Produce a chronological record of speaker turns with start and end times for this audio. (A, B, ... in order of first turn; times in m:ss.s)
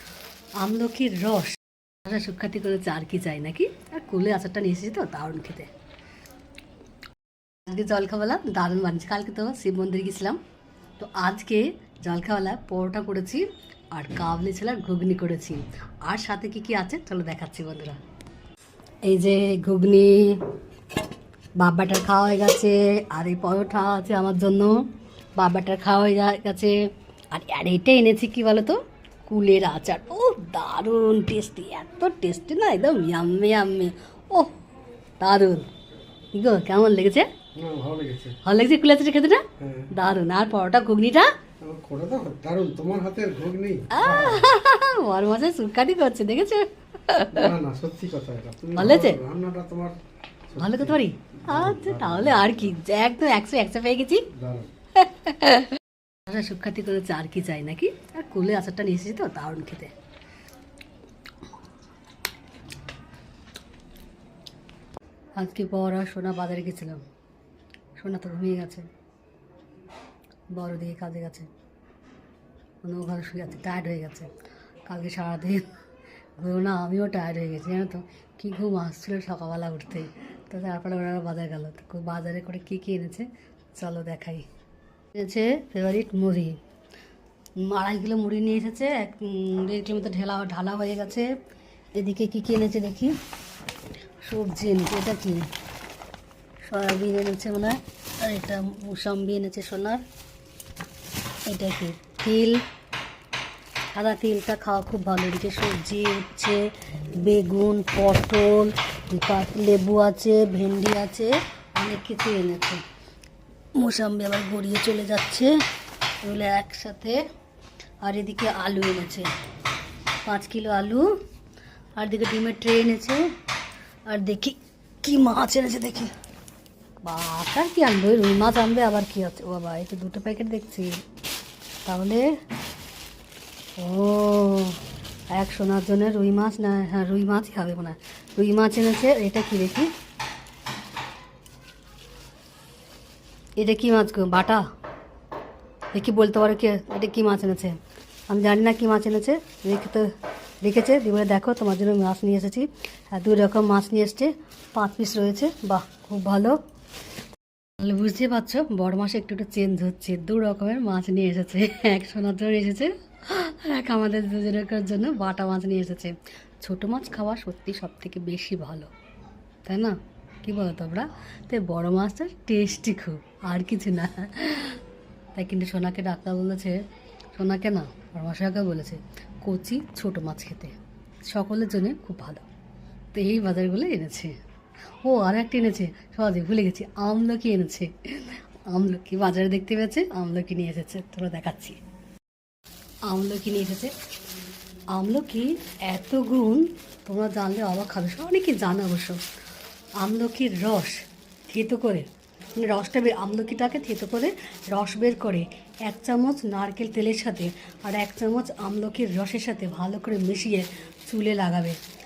0:00.6-0:05.7 A
0:07.6-0:10.4 A
0:11.0-0:18.0 A
0:19.0-0:20.5 A
0:21.6-0:26.8 A
0:27.3-0:34.6 A
0:35.2-0:35.7 A
0:36.3-0:37.3 A
0:37.5-0:38.4 B
0:38.4-0:41.3 A
0:39.6-0:39.9 B
0:41.6-0:44.6 B
0:43.9-0:47.5 A
0:47.3-0:52.6 B
0:48.8-0:49.2 A
0:50.6-0:54.3 A
0:54.3-0:54.7 B
0:55.0-0:55.7 A
0:56.3-0:59.9 A
1:05.4-1:07.0 A
1:08.0-1:08.9 A
1:10.5-1:11.5 A
1:12.8-1:14.3 A
1:14.9-1:15.7 A
1:16.4-1:24.5 A
1:25.2-1:26.6 A
1:27.6-1:31.3 A
1:31.9-1:33.1 A
1:34.2-1:35.5 A
1:36.6-1:40.0 A
1:41.4-1:42.6 A
1:43.9-1:52.8 A
1:53.8-1:55.6 A
1:56.2-1:57.2 A
1:58.0-1:59.3 A
2:00.2-2:01.1 A
2:02.0-2:03.2 A
2:04.1-2:06.1 A
2:07.0-2:11.0 A
2:11.8-2:12.3 A
2:13.8-2:19.9 A
2:23.6-2:24.6 A
2:25.9-2:36.6 A
2:37.8-2:48.9 A
2:49.6-2:54.8 A
2:55.3-2:56.8 A
2:57.3-3:00.8 A
3:01.3-3:02.5 A
3:03.1-3:04.4 A
3:05.0-3:11.8 A
3:13.0-3:13.9 A
3:14.9-3:19.2 A
3:20.0-3:31.8 A